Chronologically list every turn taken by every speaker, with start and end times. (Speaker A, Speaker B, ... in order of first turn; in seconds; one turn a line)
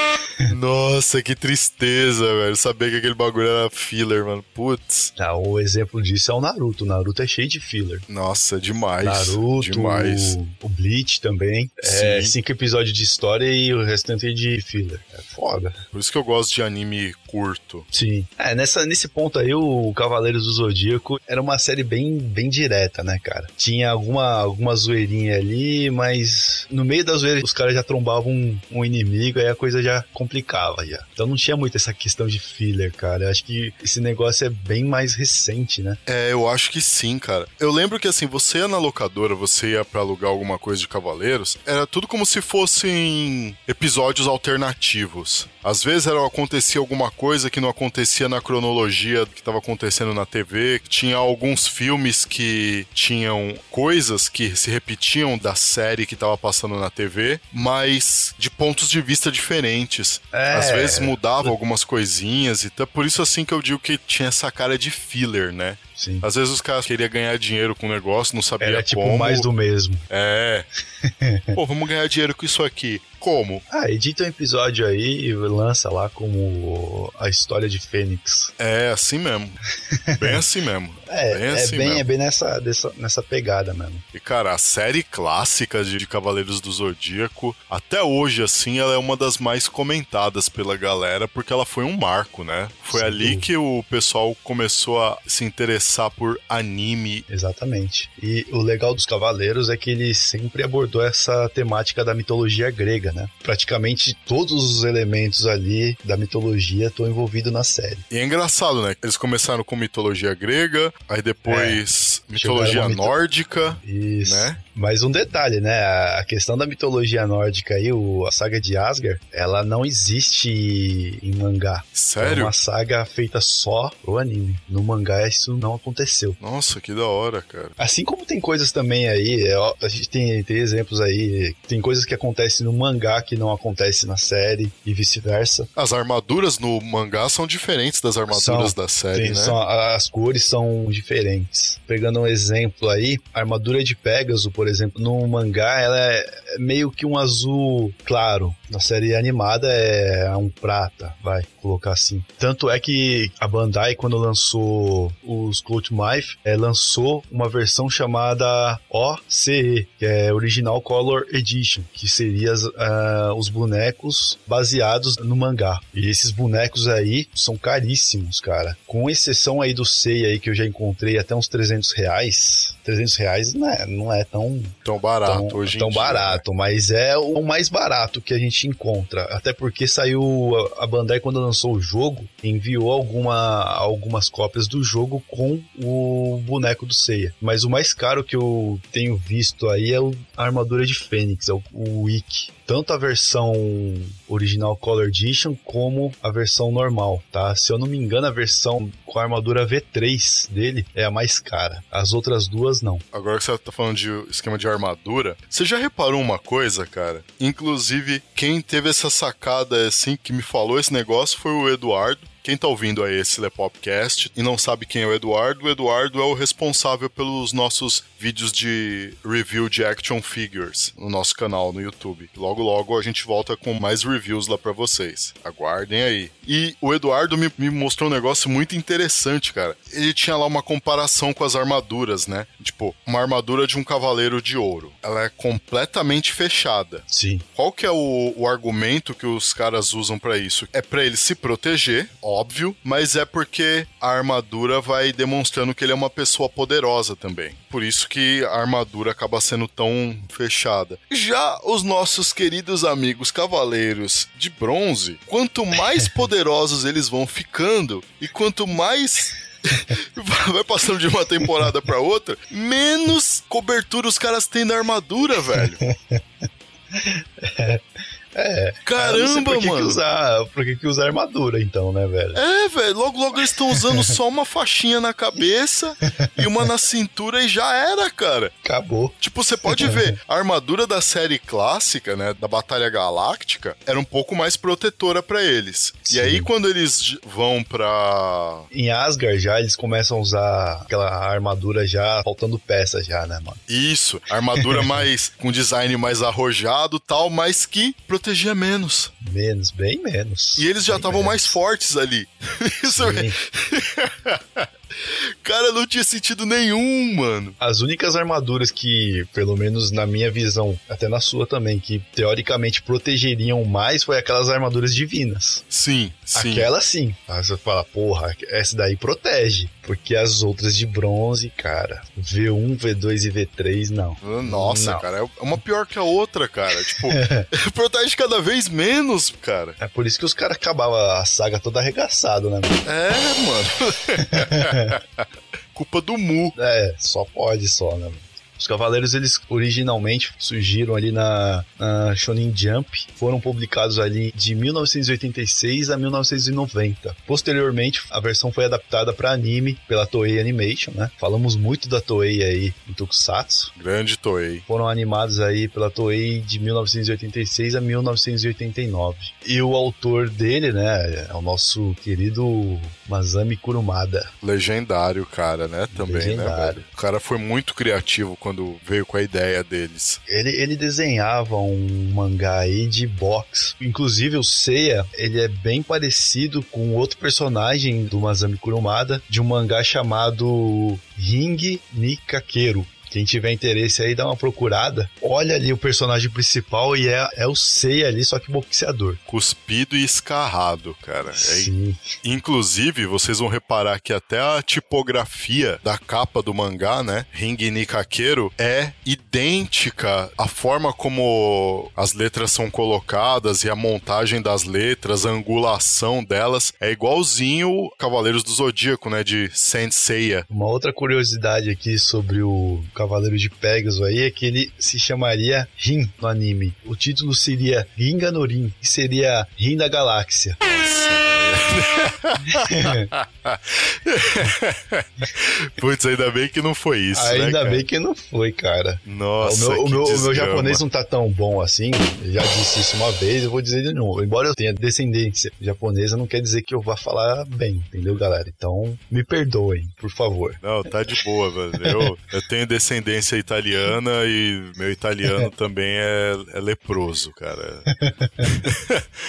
Speaker A: 0.4-5.1
Speaker B: 5.2-8.1
Speaker A: 8.1-10.4
Speaker B: 9.0-15.8
Speaker A: 11.8-12.3
Speaker A: 15.9-17.9
Speaker B: 17.9-36.0
Speaker A: 36.1-69.5
Speaker B: 60.3-61.5
Speaker B: 66.0-66.3
Speaker B: 68.6-70.0
Speaker A: 70.1-70.7
Speaker B: 71.0-71.6
Speaker A: 71.5-73.6
Speaker B: 73.7-78.5
Speaker A: 78.6-79.6
Speaker B: 79.9-80.4
Speaker A: 80.2-82.0
Speaker B: 81.1-84.0
Speaker A: 84.1-97.2
Speaker B: 92.9-93.5
Speaker B: 97.3-108.0
Speaker A: 108.1-114.6
Speaker B: 111.5-113.2
Speaker B: 113.8-126.4
Speaker A: 122.0-122.5
Speaker A: 126.4-127.8
Speaker B: 127.8-135.7
Speaker A: 135.8-139.6
Speaker B: 138.3-203.0
Speaker A: 174.8-176.4
Speaker A: 203.1-265.8
Speaker B: 237.1-237.4
Speaker B: 265.5-272.4
Speaker A: 268.9-270.0
Speaker A: 272.4-278.5
Speaker B: 273.7-274.1
Speaker B: 276.1-276.4
Speaker B: 278.6-280.2
Speaker A: 279.2-288.7
Speaker B: 286.1-286.5
Speaker B: 288.7-293.6
Speaker A: 293.7-299.1
Speaker B: 294.5-295.0
Speaker B: 299.2-301.6
Speaker A: 300.6-307.6
Speaker B: 302.8-303.4
Speaker B: 307.6-315.6
Speaker A: 315.7-316.7
Speaker B: 316.3-325.1
Speaker A: 324.2-329.8
Speaker B: 326.9-327.5
Speaker B: 329.8-332.9
Speaker A: 332.9-336.6
Speaker B: 334.2-335.0
Speaker B: 336.6-353.7
Speaker A: 353.8-354.7
Speaker B: 354.7-364.3
Speaker A: 364.4-370.2
Speaker B: 365.9-366.8
Speaker B: 370.3-389.2
Speaker A: 389.3-410.5
Speaker B: 391.3-392.1
Speaker B: 410.5-420.6
Speaker A: 420.6-427.8
Speaker B: 422.5-423.1
Speaker B: 427.1-440.6
Speaker A: 429.1-430.8
Speaker A: 440.6-447.9
Speaker B: 448.0-448.5
Speaker A: 448.4-449.0